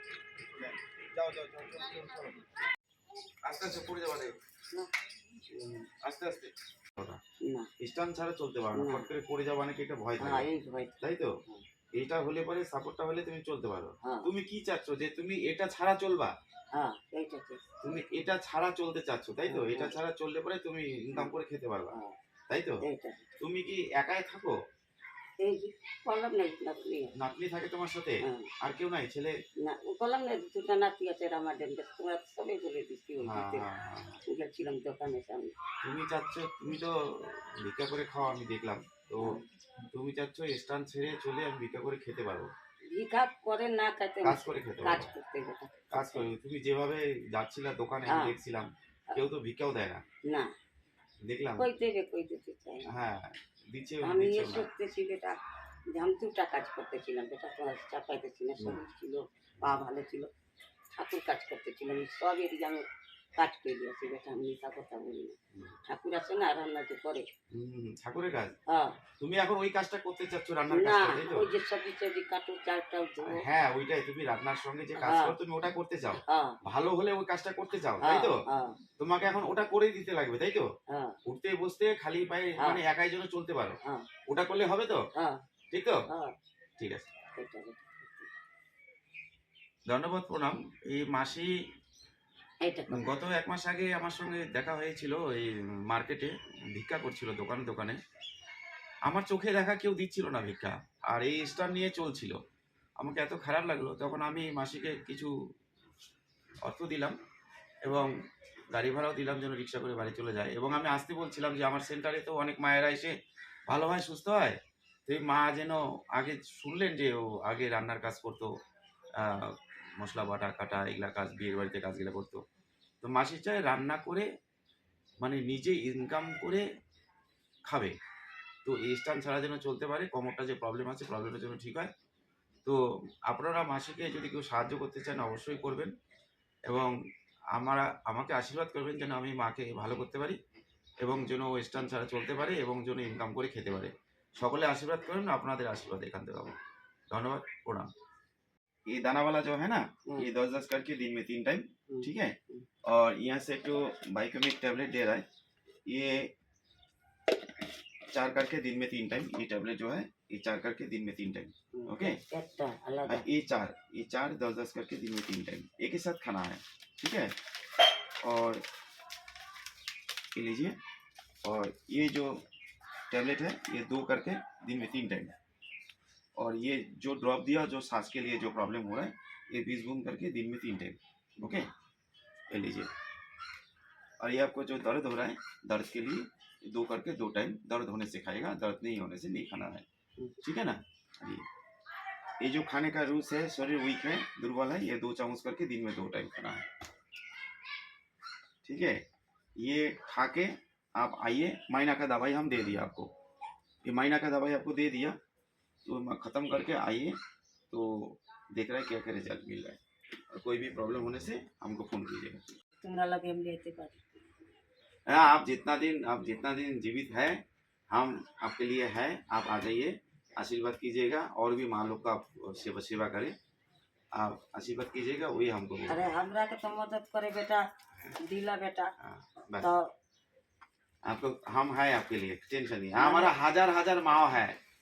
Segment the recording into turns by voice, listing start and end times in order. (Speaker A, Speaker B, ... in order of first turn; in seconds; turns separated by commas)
Speaker A: 0.4-2.5, Speaker A: 3.4-4.4, Speaker A: 5.5-7.2, Speaker B: 7.4-7.7, Speaker A: 7.8-10.5, Speaker B: 8.8-9.1, Speaker B: 10.2-11.6, Speaker A: 11.0-11.4, Speaker A: 11.9-16.3, Speaker B: 14.0-14.3, Speaker B: 16.7-17.6, Speaker A: 17.8-22.0, Speaker B: 19.5-20.0, Speaker B: 21.9-22.2, Speaker A: 22.5-22.8, Speaker B: 22.8-23.3, Speaker A: 23.4-24.6, Speaker B: 25.4-27.1, Speaker A: 27.1-29.4, Speaker B: 28.2-28.5, Speaker B: 29.6-33.7, Speaker A: 33.2-34.2, Speaker B: 34.2-35.5, Speaker A: 35.8-42.5, Speaker B: 39.2-39.5, Speaker B: 42.9-46.3, Speaker A: 44.2-45.1, Speaker A: 45.9-50.0, Speaker B: 48.1-48.4, Speaker B: 50.2-50.5, Speaker A: 51.2-51.7, Speaker B: 51.6-52.9, Speaker A: 52.9-54.7, Speaker B: 54.0-55.4, Speaker B: 55.9-60.3, Speaker B: 61.0-62.9, Speaker B: 63.4-67.3, Speaker A: 67.5-68.6, Speaker B: 68.7-69.0, Speaker A: 69.2-71.5, Speaker B: 70.7-73.5, Speaker A: 73.2-78.4, Speaker B: 75.0-75.4, Speaker B: 76.2-76.6, Speaker B: 78.0-78.8, Speaker A: 79.0-80.7, Speaker B: 80.9-81.2, Speaker A: 81.2-85.0, Speaker B: 82.6-82.8, Speaker B: 83.8-84.1, Speaker B: 85.2-85.4, Speaker A: 85.7-86.0, Speaker B: 86.1-86.3, Speaker A: 86.8-87.1, Speaker B: 87.4-88.3, Speaker A: 89.9-91.6, Speaker B: 92.6-93.0, Speaker A: 92.9-98.0, Speaker A: 99.1-102.4, Speaker A: 103.0-105.3, Speaker A: 106.6-107.2, Speaker A: 107.8-108.1, Speaker A: 108.7-113.2, Speaker A: 113.7-118.5, Speaker A: 119.2-122.4, Speaker A: 123.0-124.3, Speaker A: 125.2-126.7, Speaker A: 127.7-128.0, Speaker A: 128.6-131.9, Speaker A: 132.7-135.9, Speaker A: 136.7-136.9, Speaker A: 137.5-140.4, Speaker A: 141.0-146.6, Speaker A: 147.1-147.9, Speaker A: 148.9-155.2, Speaker B: 151.9-152.7, Speaker A: 155.9-156.3, Speaker A: 158.1-162.2, Speaker B: 161.7-163.2, Speaker A: 163.1-167.4, Speaker A: 168.2-168.7, Speaker A: 170.3-170.8, Speaker A: 171.4-172.4, Speaker A: 173.1-175.3, Speaker A: 176.4-181.7, Speaker A: 182.5-182.9, Speaker A: 184.2-189.8, Speaker A: 190.4-191.4, Speaker A: 192.4-196.7, Speaker A: 198.6-199.0, Speaker A: 199.6-203.1, Speaker A: 203.8-205.2, Speaker A: 205.8-207.2, Speaker A: 207.7-209.8, Speaker A: 210.3-212.5, Speaker B: 212.8-214.0, Speaker A: 215.1-223.3, Speaker A: 224.2-226.1, Speaker B: 225.9-227.6, Speaker B: 228.2-228.9, Speaker A: 229.0-229.7, Speaker B: 229.6-229.9, Speaker A: 231.1-234.6, Speaker B: 233.0-233.3